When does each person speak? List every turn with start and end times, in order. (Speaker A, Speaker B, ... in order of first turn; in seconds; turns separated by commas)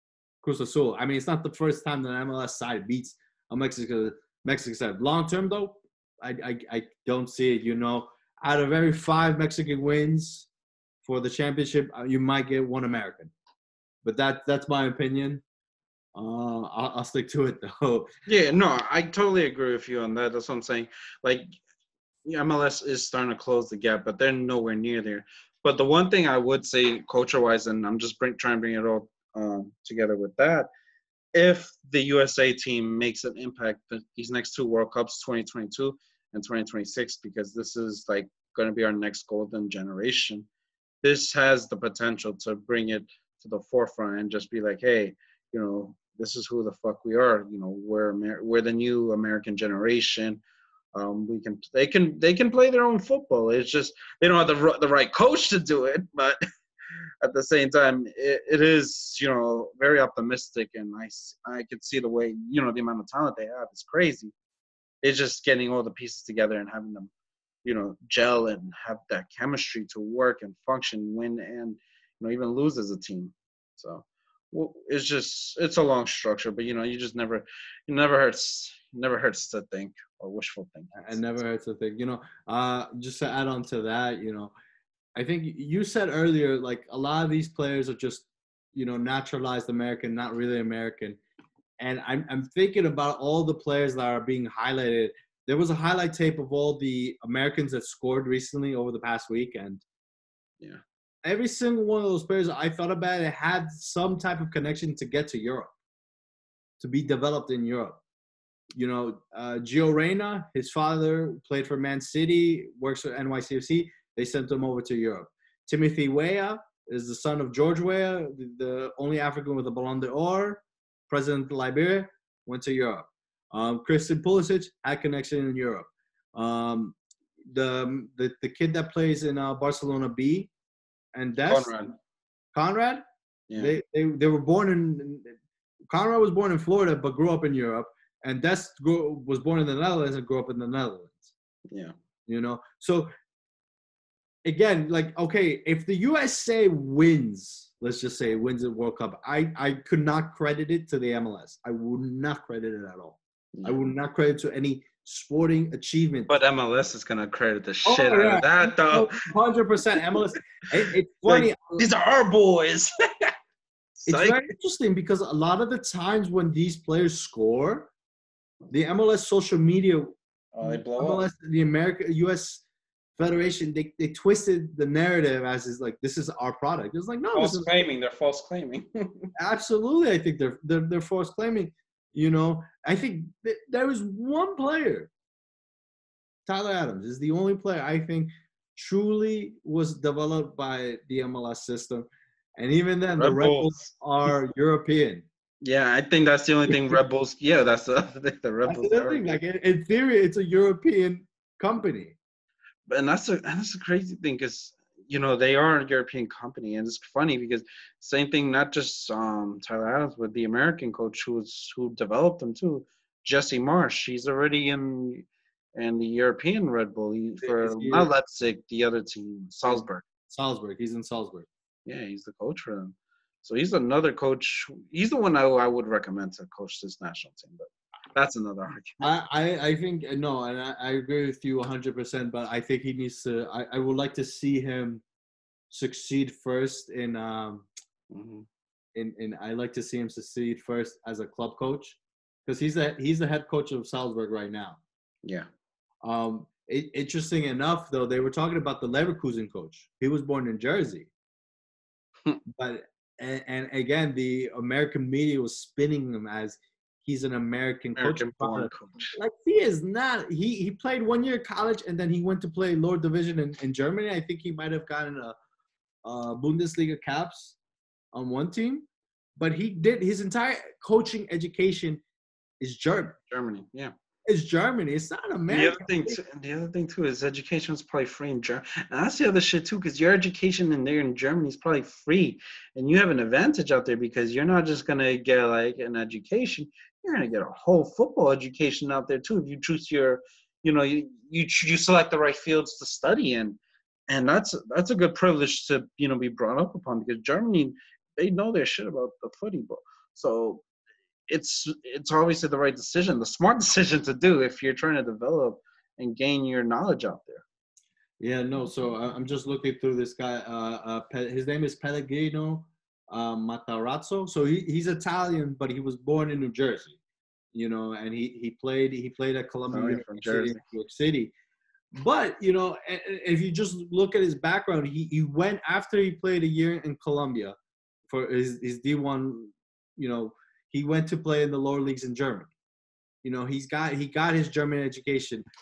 Speaker A: 0.4-10.5, Speaker A: 11.0-13.3, Speaker A: 14.0-15.4, Speaker A: 16.1-18.1, Speaker B: 18.3-21.5, Speaker B: 22.2-30.7, Speaker B: 31.3-40.5, Speaker B: 41.0-50.4, Speaker B: 50.9-56.4, Speaker B: 57.2-64.3, Speaker B: 65.0-67.1, Speaker B: 67.6-81.2, Speaker A: 80.9-84.5, Speaker A: 85.2-91.2, Speaker A: 91.8-99.8, Speaker A: 101.2-105.7, Speaker A: 106.8-108.0, Speaker A: 108.7-127.0, Speaker A: 127.5-130.5, Speaker A: 131.1-131.8, Speaker B: 131.4-131.9, Speaker A: 132.5-133.0, Speaker A: 133.6-135.3, Speaker A: 135.9-141.3, Speaker B: 141.7-141.9, Speaker A: 142.3-143.1, Speaker A: 144.4-156.3, Speaker B: 153.5-153.8, Speaker B: 156.3-159.1, Speaker A: 157.8-161.8, Speaker B: 161.2-163.3, Speaker B: 164.0-164.5, Speaker A: 164.1-167.9, Speaker A: 168.7-172.6, Speaker B: 170.5-171.2, Speaker A: 173.2-177.7, Speaker B: 177.3-179.3, Speaker A: 179.3-185.1, Speaker A: 186.4-195.2, Speaker B: 193.2-193.8, Speaker B: 195.6-199.4, Speaker A: 196.7-196.9, Speaker A: 198.7-202.2, Speaker B: 202.9-220.0, Speaker A: 217.4-218.1, Speaker A: 219.7-221.5, Speaker B: 221.8-229.1, Speaker A: 229.0-235.0, Speaker A: 235.7-237.7, Speaker B: 238.1-238.5, Speaker A: 238.9-244.8, Speaker A: 246.0-251.1, Speaker A: 252.5-265.3, Speaker B: 258.0-259.1, Speaker A: 266.0-267.6, Speaker A: 268.1-272.0, Speaker A: 272.6-273.1, Speaker B: 273.3-273.9, Speaker A: 274.3-276.2, Speaker B: 275.5-293.6, Speaker B: 294.1-300.6, Speaker B: 301.3-307.4, Speaker A: 308.2-317.0, Speaker A: 317.5-321.3, Speaker B: 319.7-320.6, Speaker A: 321.9-327.5, Speaker A: 328.1-332.5, Speaker A: 333.2-335.4